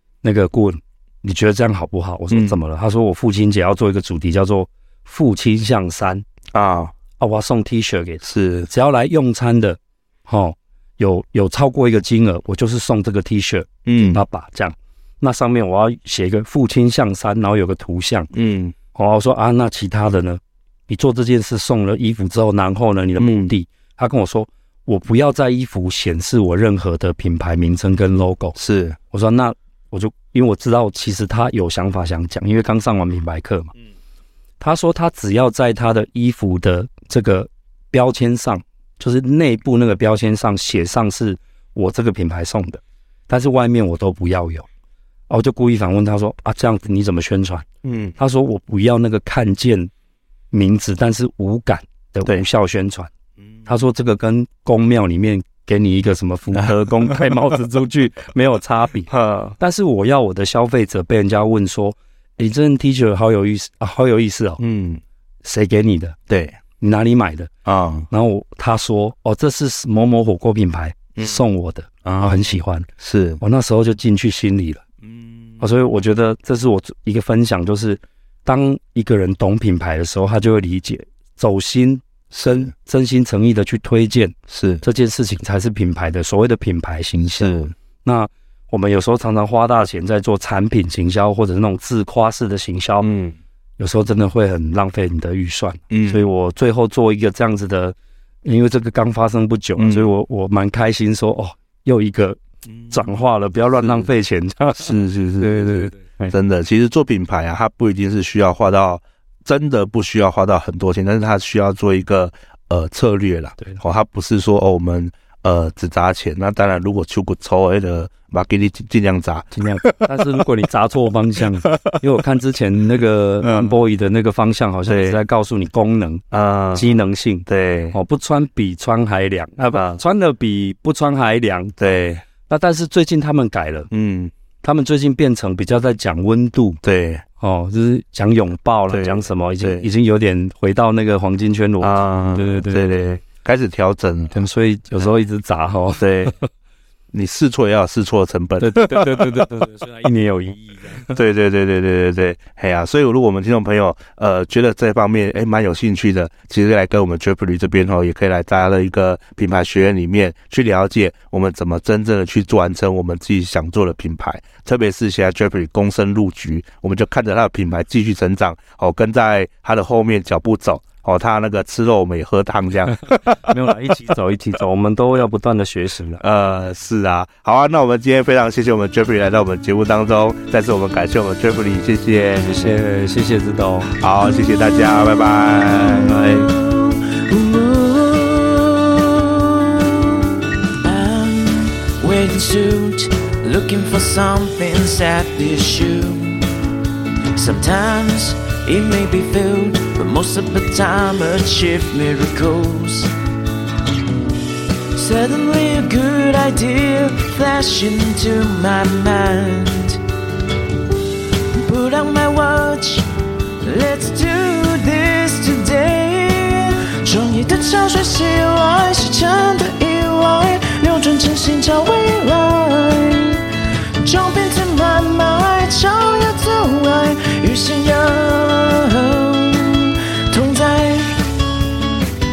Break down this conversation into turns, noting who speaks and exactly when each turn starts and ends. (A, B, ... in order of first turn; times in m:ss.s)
0:00.2-0:06.2 A
0:02.3-0:02.6 B
0:06.5-0:06.9 B
0:07.2-0:18.3 A
0:08.2-0:08.7 B
0:13.9-0:14.2 B
0:18.3-0:18.8 B
0:18.9-0:28.6 A
0:23.2-0:23.5 B
0:28.6-0:29.0 B
0:29.1-0:33.7 A
0:34.6-0:44.7 A
0:45.3-0:47.7 A
0:47.8-0:48.2 B
0:48.2-0:49.9 A
0:50.5-0:53.1 A
0:53.7-1:04.6 A
0:56.5-0:57.3 B
0:59.1-0:59.6 B
1:04.6-1:05.0 B
1:05.4-1:06.2 A
1:06.3-1:06.6 B
1:06.8-1:07.5 A
1:07.7-1:08.1 B
1:08.1-1:12.9 A
1:11.2-1:11.4 B
1:12.0-1:13.4 B
1:13.4-1:14.8 A
1:15.0-1:15.6 B
1:15.6-1:33.1 A
1:22.3-1:22.7 B
1:24.5-1:24.8 B
1:27.4-1:27.7 B
1:33.0-1:33.4 B
1:33.8-1:42.4 A
1:35.9-1:36.3 B
1:39.8-1:40.1 B
1:42.8-1:43.2 B
1:42.9-1:46.4 A
1:43.8-1:44.1 B
1:44.8-2:00.1 B
1:59.5-2:06.2 A
2:03.4-2:03.7 B
2:04.9-2:05.2 B
2:06.3-2:08.0 B
2:06.8-2:11.8 A
2:09.7-2:10.0 B
2:11.8-2:12.2 B
2:12.4-2:13.9 A
2:13.9-2:14.3 B
2:14.6-2:16.8 A
2:16.8-2:17.2 B
2:17.4-2:23.0 A
2:18.9-2:19.9 B
2:21.8-2:24.4 B
2:24.3-2:26.5 A
2:26.0-2:26.4 B
2:27.1-2:29.4 B
2:28.6-2:31.2 A
2:31.1-2:53.3 B
2:52.9-2:56.2 A
2:56.2-3:02.8 B
3:02.3-3:04.0 A
3:04.0-3:06.3 B
3:05.8-3:06.5 A
3:05.8-3:16.5 C
3:17.3-3:23.1 C
3:24.9-3:30.0 C
3:31.5-3:33.1 C
3:33.6-3:51.3 C